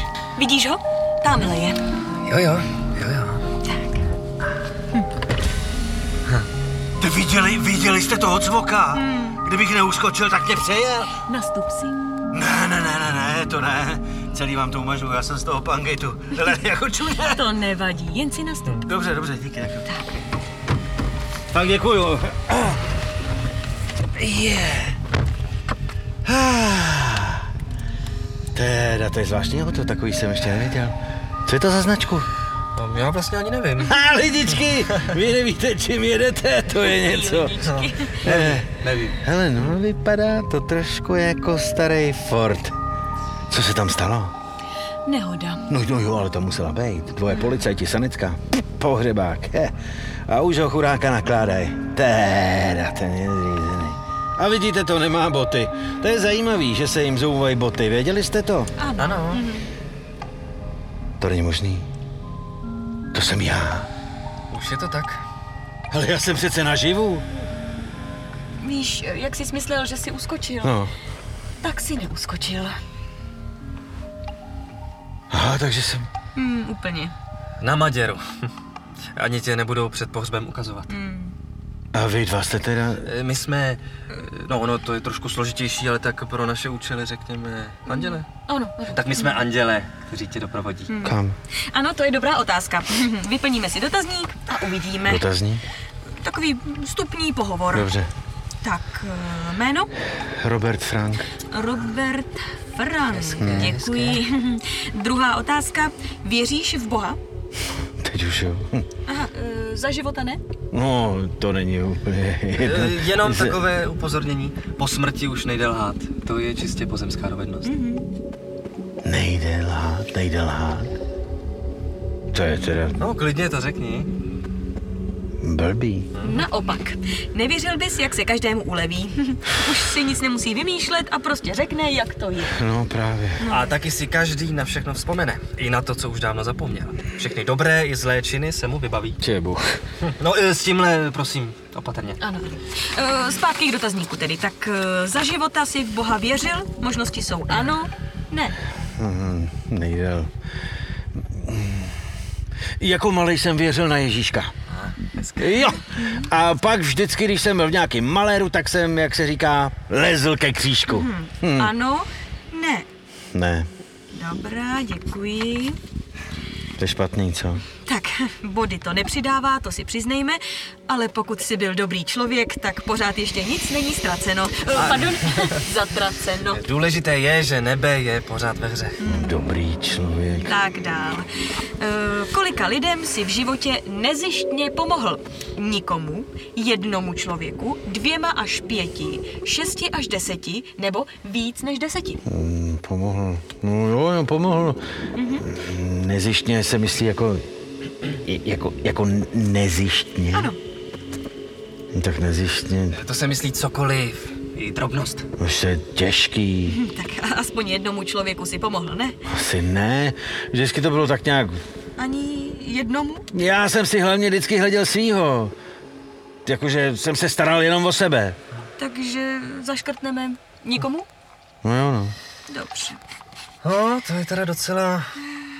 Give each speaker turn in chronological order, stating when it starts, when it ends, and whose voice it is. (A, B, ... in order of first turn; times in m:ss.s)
0:00.3-0:01.8 A
0:02.3-0:03.4 B
0:03.6-0:04.0 A
0:07.0-0:11.2 C
0:08.9-0:09.4 A
0:11.2-0:12.0 A
0:12.3-0:17.4 C
0:17.2-0:18.9 A
0:18.8-0:19.9 C
0:21.5-0:22.8 C
0:24.2-0:25.0 C
0:26.2-0:27.5 C
0:28.5-0:32.3 C
0:32.7-0:34.0 B
0:33.8-0:37.6 C
0:34.6-0:35.1 B
0:36.8-0:38.2 A
0:37.6-0:39.2 B
0:38.2-0:42.8 C
0:43.5-0:44.3 C
0:45.0-0:45.7 A
0:45.7-0:49.7 C
0:50.3-0:58.7 C
0:58.8-0:59.7 A
0:59.0-0:59.4 B
1:01.2-1:01.8 C
1:03.1-1:03.9 C
1:04.5-1:05.2 B
1:05.9-1:07.2 C
1:08.6-1:10.8 A
1:10.6-1:10.9 C
1:11.6-1:12.8 A
1:15.3-1:16.1 C
1:16.3-1:17.1 A
1:17.6-1:18.2 B
1:19.1-1:20.9 B
1:20.9-1:21.3 A
1:21.9-1:23.1 C
1:23.0-1:28.2 B
1:27.8-1:29.4 A
1:28.9-1:30.9 B
1:30.9-1:35.3 A
1:31.0-1:31.4 C
1:35.0-1:35.6 C
1:36.1-1:37.9 A
1:37.7-1:38.1 C
1:38.6-1:39.9 A
1:40.2-1:41.3 C
1:41.5-1:47.2 A
1:43.1-1:44.2 B
1:43.4-1:43.7 C
1:48.0-1:48.8 C
1:49.0-1:50.4 A
1:50.7-1:53.6 C
1:52.6-1:57.7 B
1:57.6-1:58.0 A
1:59.0-2:00.9 C
2:02.3-2:03.0 C
2:03.0-2:04.1 B
2:05.4-2:06.1 C
2:06.1-2:06.4 B
2:06.2-2:12.5 A
2:12.5-2:13.5 C
2:13.4-2:13.7 A
2:13.5-2:19.2 B
2:19.2-2:19.8 C
2:20.0-2:22.2 B
2:22.2-2:28.6 A
2:28.9-2:30.3 C
2:31.2-2:32.0 C
2:32.8-2:34.5 C
2:34.7-2:35.7 B
2:35.4-2:41.7 C
2:35.9-2:36.3 A
2:40.9-2:42.9 A
2:43.3-2:43.7 C
2:44.1-2:45.8 A
2:46.8-2:47.6 C
2:47.8-2:56.6 A
2:54.7-2:55.6 B
2:56.5-2:59.0 B
2:59.0-2:59.5 A
2:59.0-3:00.5 C
3:00.4-3:12.2 A
3:12.2-3:14.8 C
3:15.1-3:15.5 A
3:15.4-3:17.4 C
3:18.1-3:20.5 C
3:21.9-3:23.0 C
3:22.9-3:25.2 B
3:25.4-3:26.8 C
3:26.6-3:29.2 A
3:29.2-3:31.6 C
3:32.0-3:33.3 A
3:33.3-3:35.5 C
3:36.4-3:38.4 C
3:38.8-3:41.1 A
3:41.6-3:42.2 C
3:42.5-3:43.0 A
3:43.6-3:45.2 B